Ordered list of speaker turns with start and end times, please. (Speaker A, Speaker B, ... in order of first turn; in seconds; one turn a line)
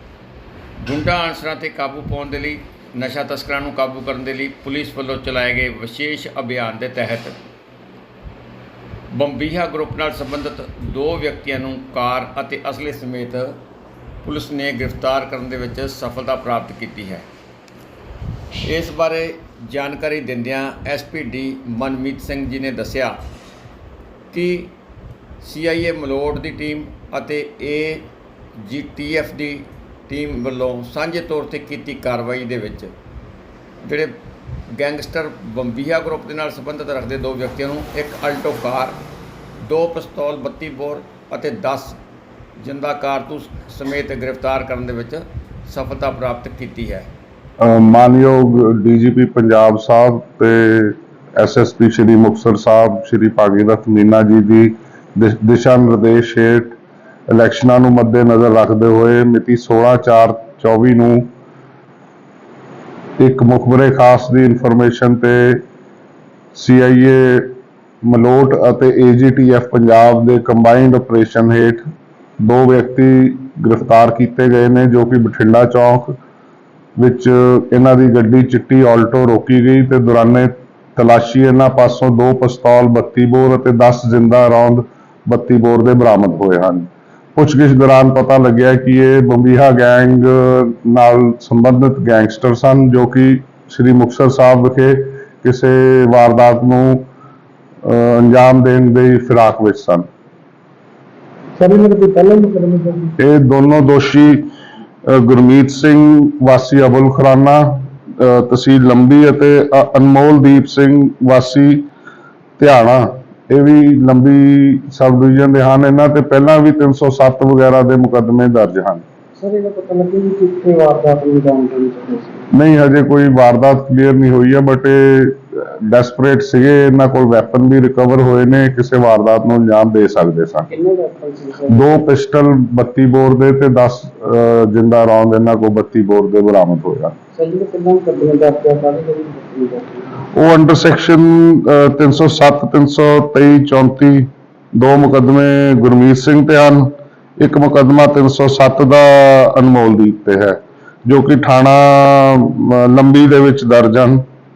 Speaker A: 0.8-7.4
Speaker A: 9.1-13.6
Speaker A: 14.2-17.2
Speaker A: 18.6-23.2
Speaker A: 24.3-24.7
Speaker A: 25.4-32.9
Speaker A: 33.8-34.1
Speaker A: 34.7-39.0
Speaker A: 39.6-42.0
Speaker A: 42.6-47.1
Speaker B: 47.6-56.8
Speaker B: 57.3-61.3
Speaker B: 63.2-65.6
Speaker B: 66.5-71.8
Speaker B: 72.4-76.2
Speaker B: 77.0-97.1
Speaker B: 97.8-100.0
Speaker C: 101.5-103.2
Speaker B: 103.2-104.4
Speaker B: 105.0-111.8
Speaker B: 112.6-119.0
Speaker C: 119.4-122.5
Speaker B: 122.5-130.7
Speaker C: 130.7-131.8
Speaker B: 131.7-137.1
Speaker C: 137.3-140.2
Speaker B: 140.3-154.2